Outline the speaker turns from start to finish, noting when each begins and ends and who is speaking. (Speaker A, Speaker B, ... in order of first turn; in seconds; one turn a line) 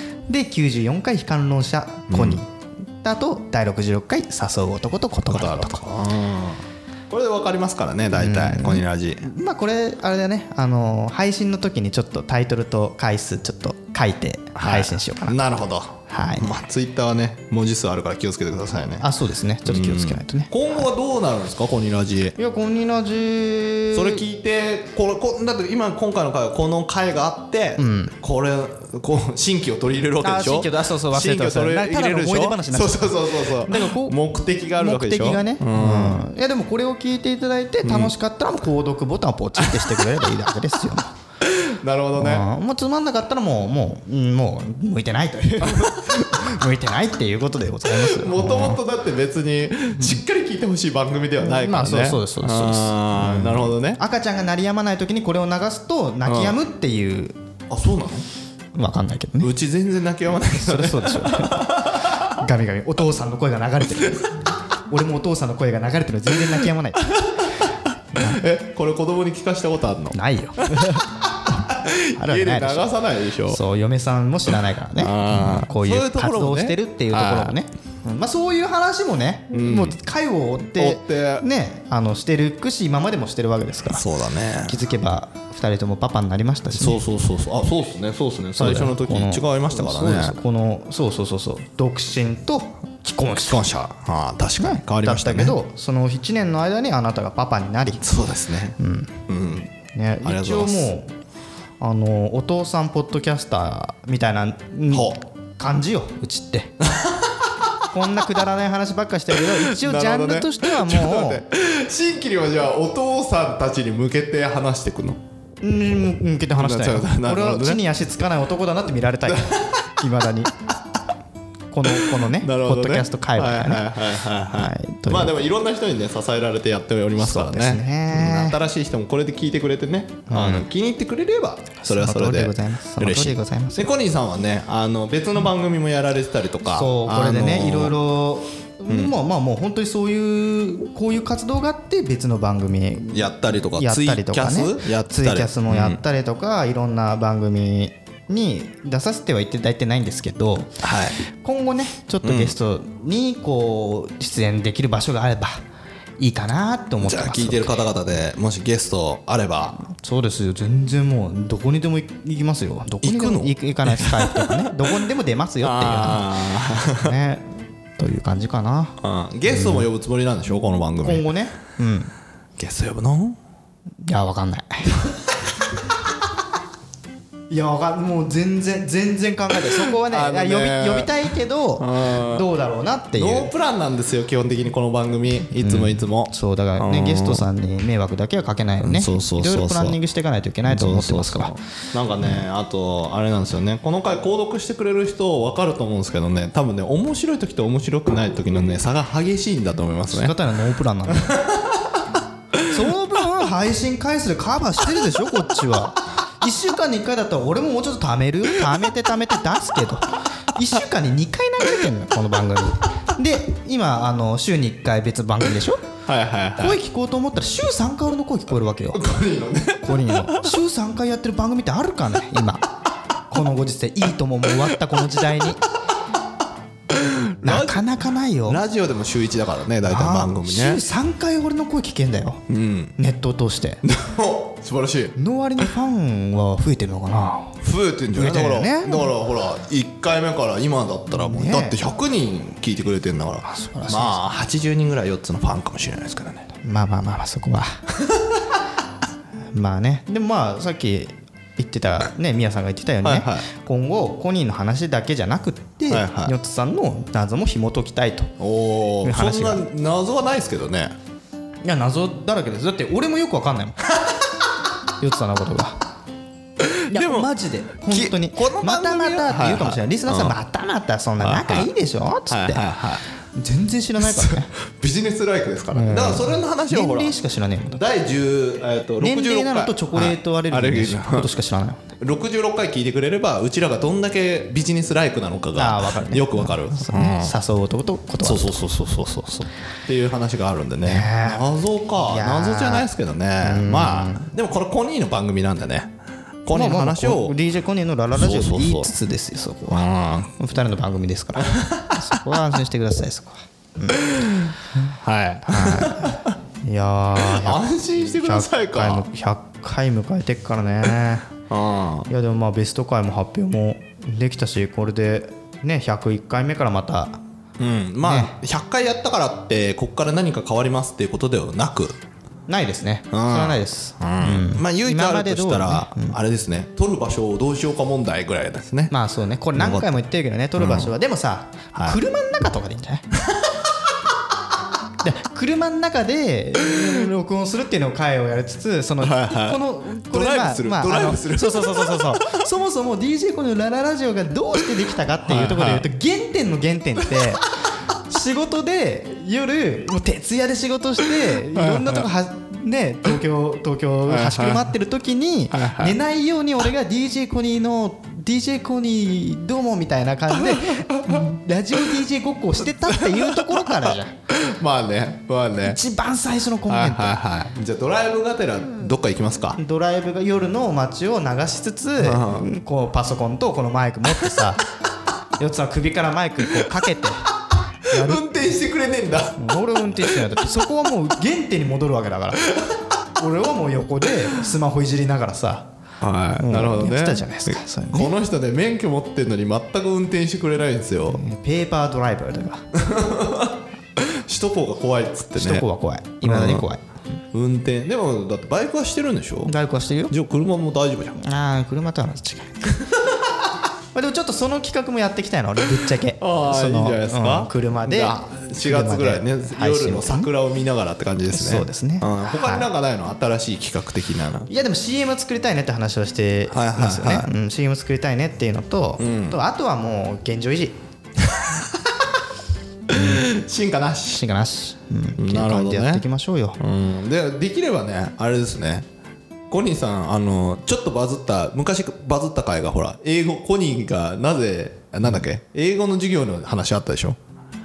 Speaker A: 0.3-2.5
Speaker B: 2.1-2.4
Speaker A: 3.0-5.8
Speaker B: 5.3-9.3
Speaker A: 8.1-15.4
Speaker B: 14.5-19.1
Speaker A: 16.1-16.5
Speaker A: 19.0-20.9
Speaker B: 19.6-22.4
Speaker A: 22.4-24.2
Speaker B: 23.9-36.3
Speaker A: 27.8-28.1
Speaker A: 30.2-34.2
Speaker A: 34.8-41.1
Speaker B: 37.8-38.1
Speaker B: 39.6-40.0
Speaker B: 41.4-42.5
Speaker A: 42.1-48.8
Speaker B: 45.6-46.4
Speaker B: 47.9-54.0
Speaker A: 51.4-57.3
Speaker B: 56.2-56.6
Speaker B: 57.7-58.2
Speaker A: 58.7-59.5
Speaker B: 59.4-62.3
Speaker A: 60.5-64.4
Speaker A: 64.9-67.2
Speaker A: 68.1-68.4
Speaker B: 68.1-73.6
Speaker A: 70.1-71.2
Speaker A: 72.2-72.9
Speaker A: 73.5-84.0
Speaker B: 75.0-77.5
Speaker B: 79.5-80.0
Speaker B: 80.8-81.5
Speaker B: 83.9-84.8
Speaker A: 84.6-87.0
Speaker B: 86.7-90.4
Speaker A: 88.6-93.7
Speaker B: 93.4-95.6
Speaker A: 94.6-98.0
Speaker B: 98.0-98.8
Speaker A: 98.8-99.2
Speaker B: 99.3-99.7
Speaker A: 99.8-101.1
Speaker B: 100.2-100.9
Speaker A: 101.8-106.7
Speaker B: 104.9-105.2
Speaker B: 106.8-107.5
Speaker A: 107.9-111.4
Speaker B: 109.3-115.2
Speaker A: 115.6-120.5
Speaker B: 116.5-117.8
Speaker B: 119.2-119.9
Speaker A: 121.7-124.0
Speaker B: 121.9-137.9
Speaker A: 124.5-125.4
Speaker A: 127.2-128.6
Speaker A: 130.3-130.7
Speaker A: 131.8-133.9
Speaker A: 136.7-155.6
Speaker B: 138.9-139.2
Speaker B: 143.1-146.0
Speaker B: 150.8-151.2
Speaker B: 152.2-152.6
Speaker A: 156.2-157.8
Speaker B: 157.0-159.8
Speaker A: 159.9-169.0
Speaker B: 163.0-164.9
Speaker B: 165.6-167.1
Speaker B: 169.0-171.3
Speaker A: 169.5-169.9
Speaker A: 171.0-172.1
Speaker B: 172.6-173.4
Speaker A: 174.0-175.1
Speaker A: 177.5-183.5
Speaker B: 180.0-181.2
Speaker B: 181.8-182.4
Speaker B: 183.1-187.4
Speaker A: 185.6-191.5
Speaker B: 188.8-190.0
Speaker B: 190.7-200.4
Speaker A: 200.1-201.4
Speaker B: 201.1-202.0
Speaker A: 202.7-215.8
Speaker B: 216.1-216.8
Speaker A: 216.6-219.1
Speaker B: 218.9-220.5
Speaker A: 219.8-222.7
Speaker A: 223.3-225.6
Speaker B: 226.9-227.8
Speaker A: 227.4-228.6
Speaker B: 228.4-230.8
Speaker A: 229.8-232.4
Speaker B: 232.5-232.9
Speaker A: 233.0-233.8
Speaker B: 233.8-235.2
Speaker A: 235.2-237.6
Speaker B: 237.6-246.5
Speaker A: 238.1-239.1
Speaker A: 241.1-241.8
Speaker A: 243.4-244.2
Speaker A: 246.6-247.8
Speaker B: 248.0-248.3
Speaker A: 249.5-258.3
Speaker B: 253.0-253.4
Speaker B: 255.9-256.3
Speaker B: 258.4-260.9
Speaker A: 259.0-259.6
Speaker A: 261.6-263.9
Speaker A: 265.0-265.8
Speaker B: 266.6-267.3
Speaker A: 266.9-272.6
Speaker B: 267.9-270.4
Speaker B: 271.2-271.7
Speaker B: 272.3-273.0
Speaker A: 273.3-274.5
Speaker B: 274.0-277.1
Speaker A: 275.7-277.8
Speaker B: 277.7-281.3
Speaker A: 279.0-281.9
Speaker B: 282.0-287.3
Speaker A: 285.5-288.6
Speaker B: 288.2-295.9
Speaker A: 290.9-291.5
Speaker A: 292.0-292.9
Speaker A: 293.4-294.3
Speaker B: 296.4-297.4
Speaker A: 296.5-304.0
Speaker B: 298.1-298.9
Speaker B: 299.7-300.3
Speaker B: 301.4-302.1
Speaker B: 304.1-306.3
Speaker A: 305.5-311.3
Speaker B: 307.2-309.1
Speaker B: 311.5-312.1
Speaker A: 312.1-317.2
Speaker B: 317.6-322.0
Speaker A: 318.0-318.4
Speaker A: 322.5-326.1
Speaker B: 323.1-328.9
Speaker A: 328.9-333.0
Speaker B: 329.6-329.9
Speaker B: 330.6-330.9
Speaker B: 333.2-333.7
Speaker A: 335.0-347.4
Speaker B: 339.0-342.4
Speaker B: 345.2-345.9
Speaker A: 348.1-364.1
Speaker B: 351.5-352.1
Speaker B: 354.1-354.6
Speaker B: 355.5-356.0
Speaker B: 360.3-361.2
Speaker B: 362.9-365.8
Speaker A: 365.6-367.1
Speaker B: 366.7-369.6
Speaker A: 369.6-374.6
Speaker B: 372.0-372.5
Speaker B: 374.1-374.4
Speaker A: 375.4-377.3
Speaker A: 377.9-378.3
Speaker B: 377.9-379.4
Speaker A: 379.4-382.5
Speaker B: 382.5-382.8
Speaker A: 383.1-385.7
Speaker B: 386.0-391.2
Speaker A: 386.4-388.1
Speaker A: 391.1-392.6
Speaker B: 392.8-395.6
Speaker A: 395.4-396.8
Speaker B: 396.2-396.7
Speaker B: 397.3-399.5
Speaker A: 399.4-400.1
Speaker B: 400.1-401.2
Speaker A: 401.2-402.8
Speaker B: 402.8-403.4
Speaker A: 403.9-410.3
Speaker B: 406.2-414.5
Speaker A: 411.3-412.7
Speaker A: 414.5-420.8
Speaker B: 416.5-417.3
Speaker B: 419.0-419.4
Speaker B: 421.2-422.1
Speaker B: 422.9-424.2
Speaker A: 422.9-423.2
Speaker A: 424.1-426.6
Speaker B: 425.2-426.0
Speaker B: 426.6-428.9
Speaker B: 429.5-437.2